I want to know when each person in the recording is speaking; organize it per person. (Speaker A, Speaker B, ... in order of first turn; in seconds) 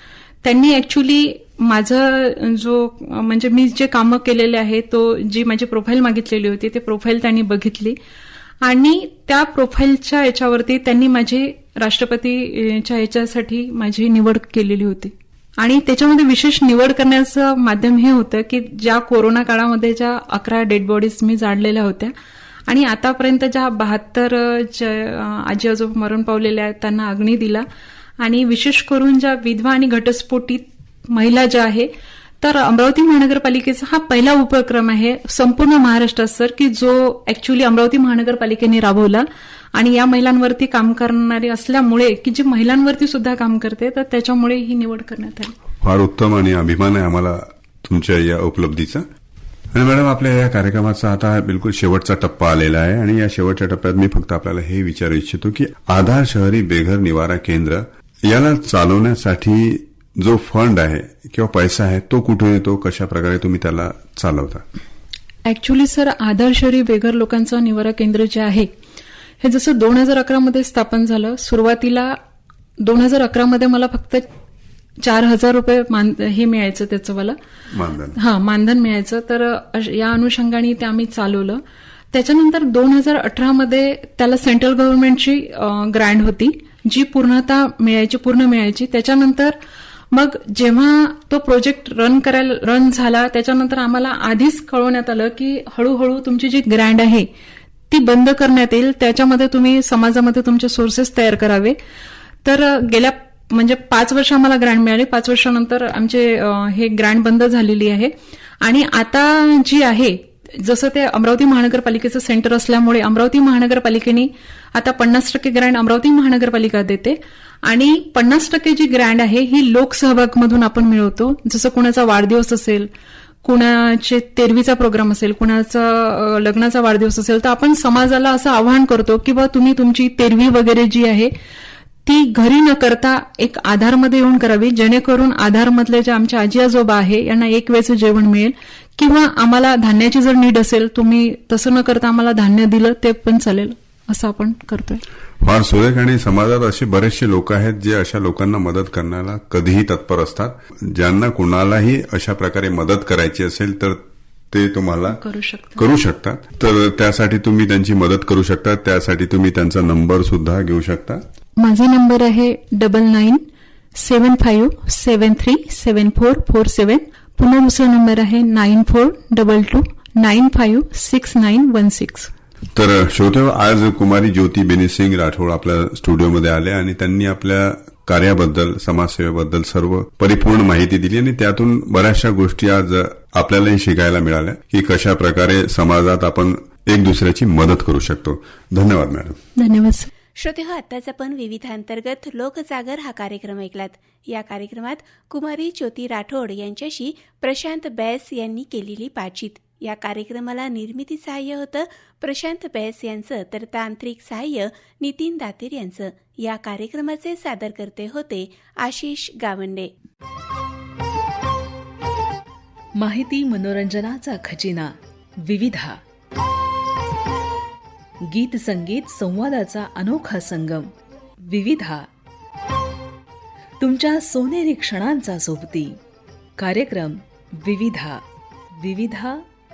Speaker A: 0.4-8.0, 8.6-22.1, 22.7-27.7, 28.2-31.9, 32.4-45.5, 65.5-68.7, 69.4-72.2, 72.8-74.2, 75.0-77.4, 78.2-81.6, 82.1-89.6, 90.1-97.3, 97.9-101.8, 102.4-108.1, 108.6-122.9, 123.4-131.3, 132.0-145.0, 155.1-155.8, 161.6-163.4, 163.9-172.3, 189.6-190.1
Speaker B: 45.8-49.0, 49.7-64.6, 77.7-78.2, 145.4-154.0, 154.5-155.2, 155.8-161.2, 172.8-189.4
Speaker C: 190.4-209.9
Speaker D: 213.0-216.0, 218.3-220.9, 221.4-222.1, 223.8-226.0, 226.6-228.2, 228.8-229.4